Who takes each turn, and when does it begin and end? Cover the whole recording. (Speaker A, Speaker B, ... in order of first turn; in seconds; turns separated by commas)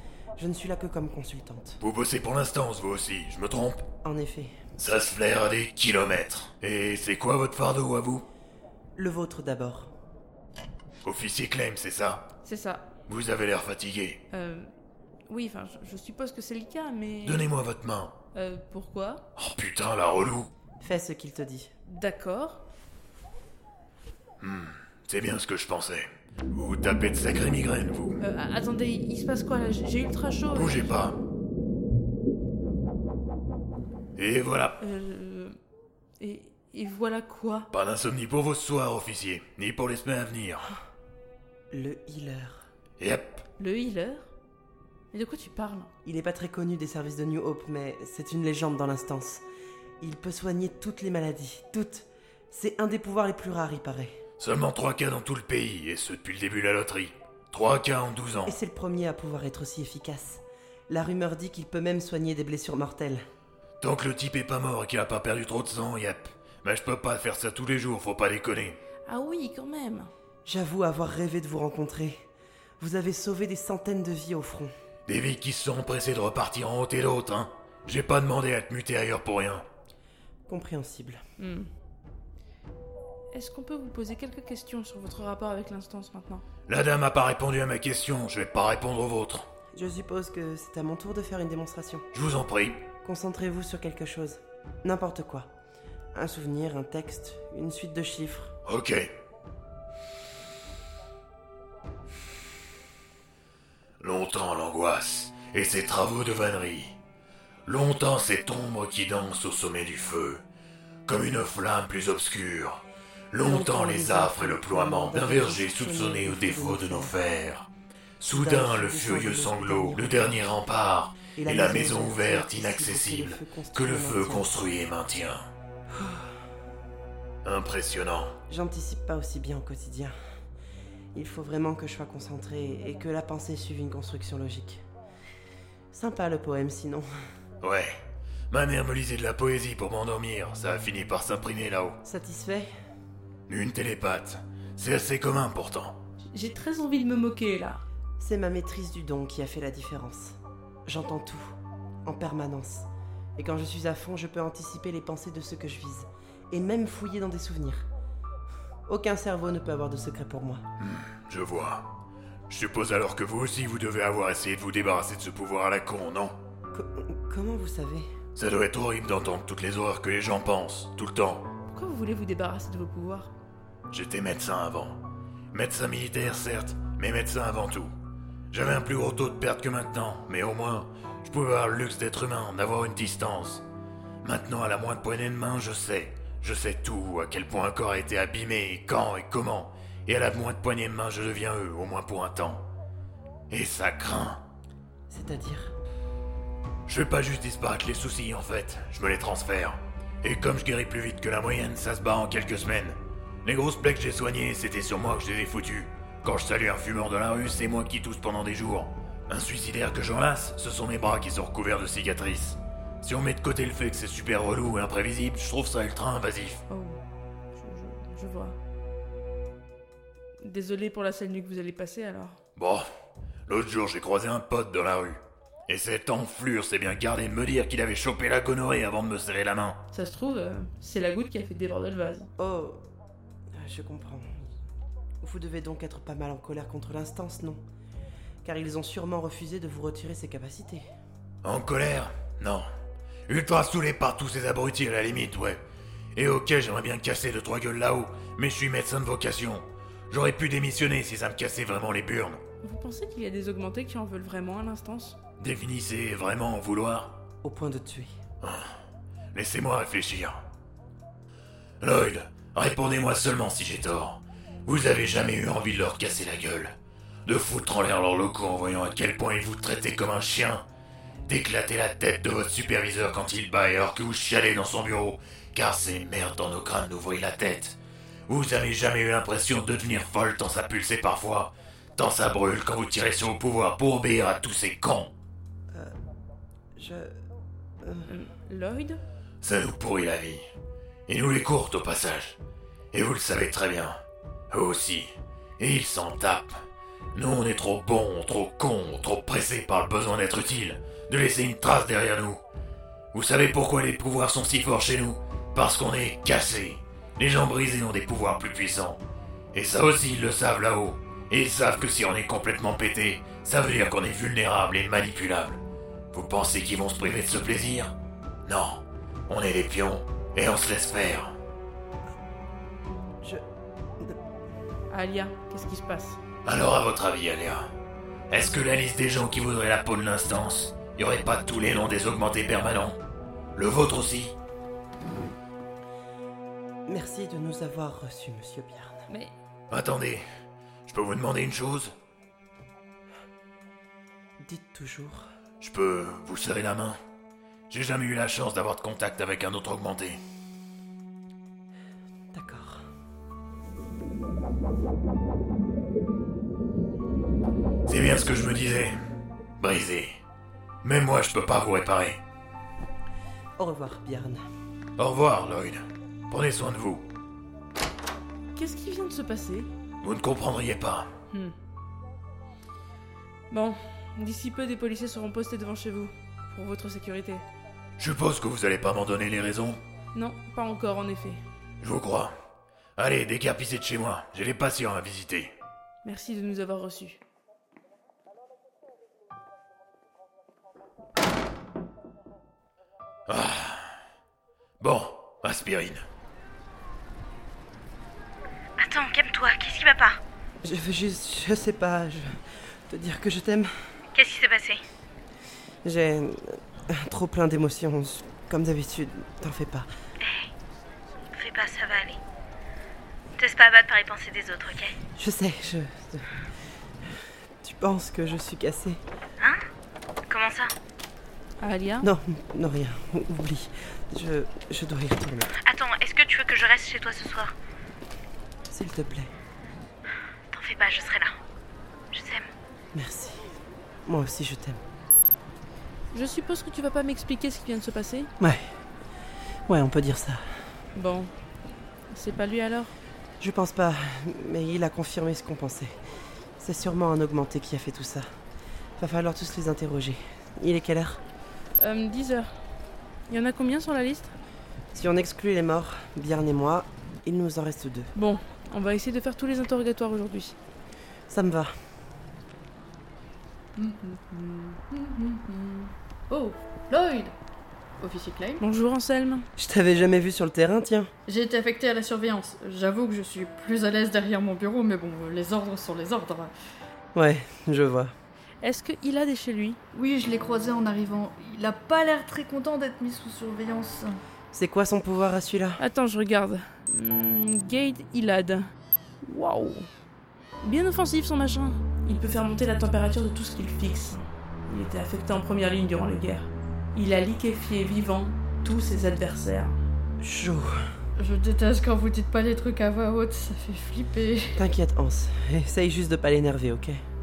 Speaker A: 0.4-1.8, Speaker B: 1.8-3.8, Speaker A: 4.0-4.6, Speaker B: 4.8-8.2, Speaker A: 9.0-9.9, Speaker B: 11.0-12.3, Speaker C: 12.4-12.9, Speaker B: 13.1-14.2, Speaker C: 14.3-14.7, Speaker C: 15.3-17.5, Speaker B: 17.2-18.2, Speaker C: 18.3-19.2, Speaker B: 19.4-20.5, Speaker A: 20.8-21.7, Speaker C: 21.9-22.6, Speaker B: 24.4-28.2, Speaker C: 28.2-30.9, Speaker B: 30.5-31.2, Speaker B: 34.2-34.8, Speaker C: 34.8-35.6, Speaker C: 36.2-37.7, Speaker B: 37.7-40.7, Speaker A: 41.7-42.7, Speaker B: 43.0-43.4, Speaker C: 43.6-44.3, Speaker C: 45.1-45.9, Speaker A: 46.0-49.4, Speaker A: 50.0-54.1, Speaker B: 54.4-58.6, Speaker A: 58.5-63.2, Speaker B: 63.8-68.8, Speaker C: 69.1-70.1, Speaker A: 70.5-72.2, Speaker A: 72.8-74.7, Speaker B: 75.1-79.7, Speaker A: 80.5-81.2, Speaker C: 81.4-81.7, Speaker C: 83.3-86.4, Speaker B: 86.7-89.5, Speaker A: 89.8-92.0, Speaker B: 92.1-92.8, Speaker A: 93.0-95.5, Speaker A: 96.2-98.5, Speaker B: 98.7-99.0, Speaker B: 104.0-107.0, Speaker B: 107.7-110.4, Speaker B: 111.1-117.7, Speaker A: 113.4-117.2, Speaker B: 118.2-125.5, Speaker A: 118.3-120.4, Speaker A: 121.4-124.5, Speaker A: 126.0-126.3, Speaker B: 127.5-128.3, Speaker A: 128.5-130.1, Speaker A: 131.1-134.8, Speaker A: 135.9-137.1, Speaker B: 137.6-137.9, Speaker B: 138.5-142.0, Speaker A: 142.0-142.7, Speaker B: 143.5-146.0, Speaker C: 146.3-147.8, Speaker A: 148.2-151.5, Speaker A: 152.1-157.9, Speaker A: 158.9-160.6, Speaker B: 160.8-161.9, Speaker B: 162.5-166.4, Speaker A: 166.7-168.1, Speaker B: 168.4-171.4, Speaker C: 171.7-173.3, Speaker B: 173.9-175.0, Speaker B: 175.5-177.9, Speaker B: 178.5-183.7, Speaker B: 184.2-192.6, Speaker B: 193.5-194.4, Speaker A: 195.1-195.8, Speaker B: 196.9-216.6, Speaker C: 216.7-217.0, Speaker C: 217.6-218.6, Speaker C: 220.4-222.4, Speaker B: 222.6-222.9, Speaker B: 223.5-229.8, Speaker C: 229.9-232.3, Speaker A: 232.4-232.8, Speaker A: 233.5-234.3, Speaker A: 235.2-237.6, Speaker A: 238.4-240.9, Speaker B: 241.4-242.7, Speaker B: 243.3-245.6, Speaker B: 246.2-252.4, Speaker C: 252.6-255.2, Speaker B: 255.4-257.2, Speaker A: 257.4-258.1, Speaker B: 258.4-258.7, Speaker B: 259.3-260.4, Speaker B: 261.8-266.8, Speaker B: 267.3-270.6, Speaker B: 271.3-277.8, Speaker B: 278.3-285.1, Speaker A: 286.8-287.1, Speaker A: 287.8-288.1, Speaker C: 288.1-289.0, Speaker B: 289.4-290.4, Speaker B: 291.1-292.4, Speaker B: 292.9-294.0, Speaker B: 294.5-296.6, Speaker B: 297.1-302.4, Speaker B: 303.1-309.0, Speaker B: 309.5-315.6, Speaker B: 316.1-317.9, Speaker B: 318.5-321.4, Speaker C: 324.9-326.2, Speaker B: 326.4-327.7, Speaker B: 328.3-333.0, Speaker B: 333.6-334.4, Speaker A: 336.9-339.0, Speaker C: 339.1-339.3, Speaker B: 339.7-340.2, Speaker B: 340.9-341.9, Speaker A: 344.4-345.3, Speaker B: 345.6-347.0, Speaker B: 347.7-350.2, Speaker A: 352.3-352.8, Speaker B: 357.9-359.0, Speaker B: 359.6-360.1, Speaker B: 360.8-362.2, Speaker A: 363.6-364.4, Speaker B: 365.0-367.1, Speaker C: 368.6-369.7, Speaker B: 370.0-371.1, Speaker C: 373.5-377.4, Speaker B: 378.0-379.8, Speaker C: 380.1-381.4, Speaker B: 381.8-382.3, Speaker B: 383.0-385.5, Speaker C: 386.0-387.2, Speaker B: 393.3-393.9, Speaker B: 394.8-396.0, Speaker D: 398.8-400.2, Speaker A: 400.6-402.4, Speaker A: 402.9-403.7, Speaker D: 404.1-404.8, Speaker A: 405.8-409.9, Speaker D: 411.3-412.2, Speaker D: 413.4-415.0, Speaker A: 415.2-416.2, Speaker A: 417.6-419.0, Speaker D: 420.3-420.7, Speaker C: 421.6-422.1, Speaker A: 422.0-425.5, Speaker D: 425.6-427.5, Speaker A: 428.7-429.3, Speaker D: 430.5-431.3, Speaker D: 432.1-432.5, Speaker A: 432.9-433.4, Speaker A: 434.1-434.8, Speaker C: 436.1-438.3, Speaker A: 438.4-438.7, Speaker A: 439.7-440.4, Speaker C: 440.9-441.3, Speaker C: 442.1-442.9, Speaker A: 443.4-445.9, Speaker A: 446.6-448.3, Speaker A: 449.0-451.2, Speaker C: 451.8-452.5, Speaker C: 453.3-454.3, Speaker A: 454.9-458.1, Speaker C: 458.1-460.6, Speaker A: 461.3-461.7, Speaker E: 463.8-467.4, Speaker E: 468.0-468.6, Speaker C: 468.6-469.5, Speaker A: 469.6-471.1, Speaker E: 471.3-476.6, Speaker A: 477.1-478.1, Speaker C: 478.6-479.8, Speaker E: 479.9-484.2, Speaker A: 484.5-485.8, Speaker C: 485.8-488.7, Speaker C: 489.2-489.9, Speaker C: 490.6-499.8, Speaker A: 500.2-500.8, Speaker E: 501.2-504.6, Speaker A: 504.6-507.0